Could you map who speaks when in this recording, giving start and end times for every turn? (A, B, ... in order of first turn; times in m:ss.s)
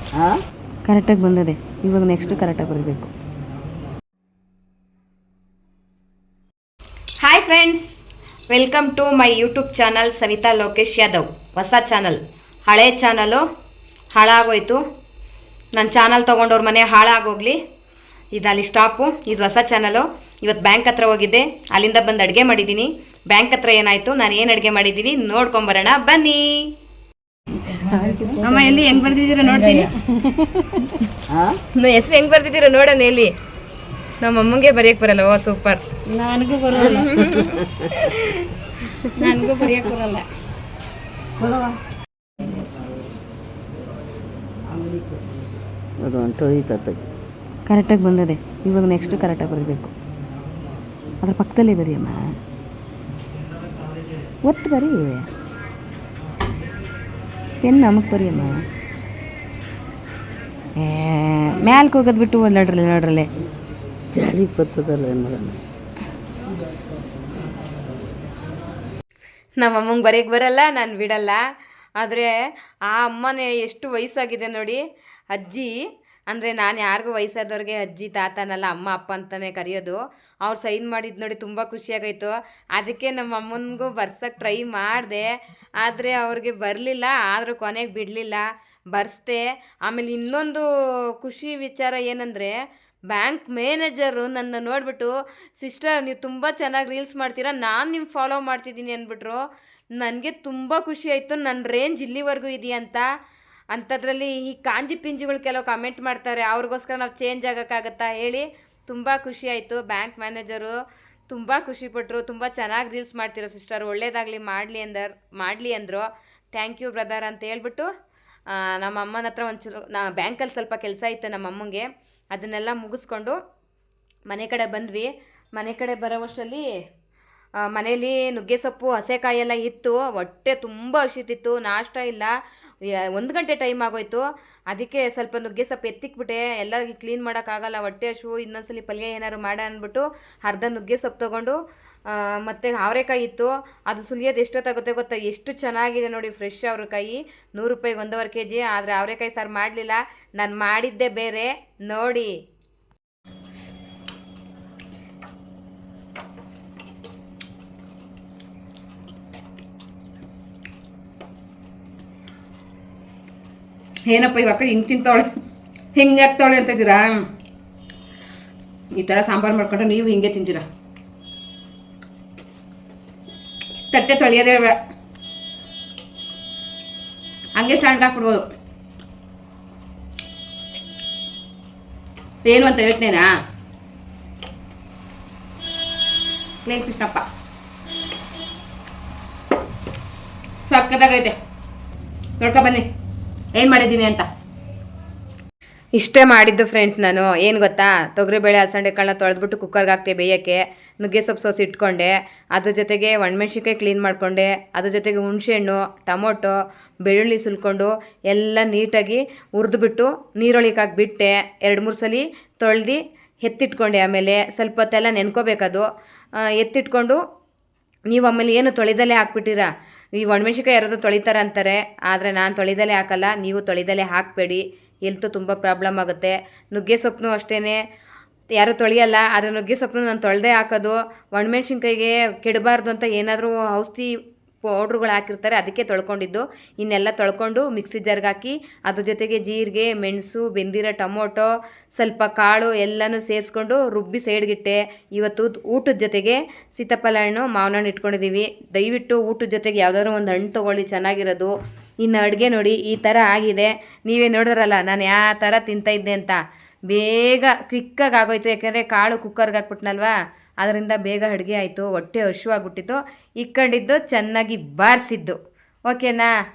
0:00.1-0:00.4 A
0:00.8-0:03.1 B
0:07.2-0:13.4 B
0:14.1-0:14.8 B
0:15.8-0:17.6 B
0:18.3-0:26.7 B
0:27.7-0:31.0 C
0:28.4-0:29.9 B
0:31.3-0:31.6 A
0:31.7-0:33.3 B
0:34.2-0:35.8 B
0:36.1-0:37.4 C
0:36.7-0:39.1 B
0:37.4-0:37.7 A
0:39.2-0:40.3 C
0:41.4-0:41.8 A
0:46.0-0:47.0 A
0:47.7-0:49.9 B
0:51.2-0:52.4 B
0:54.4-0:55.3 B
0:57.6-0:58.7 B
1:00.8-1:03.3 B
1:04.1-1:05.6 A
1:09.6-1:11.4 B
1:12.0-1:12.3 B
1:12.9-1:14.8 B
1:15.3-1:15.8 B
1:16.3-1:32.6 B
1:33.1-1:43.1 B
1:43.7-1:50.8 B
1:51.3-1:57.9 B
1:58.5-2:03.4 B
2:04.3-2:06.6 B
2:07.6-2:32.3 B
2:44.1-2:45.3 B
2:46.0-2:47.2 B
2:49.0-2:50.6 B
2:53.9-2:54.8 B
2:57.6-2:58.5 B
3:02.4-3:03.3 B
3:06.6-3:07.2 B
3:10.7-3:11.4 B
3:12.4-3:12.9 B
3:13.6-3:14.3 B
3:16.0-3:35.9 B
3:36.4-3:37.2 B
3:38.1-3:47.8 B
3:48.6-3:54.1 B
3:54.6-4:26.3 B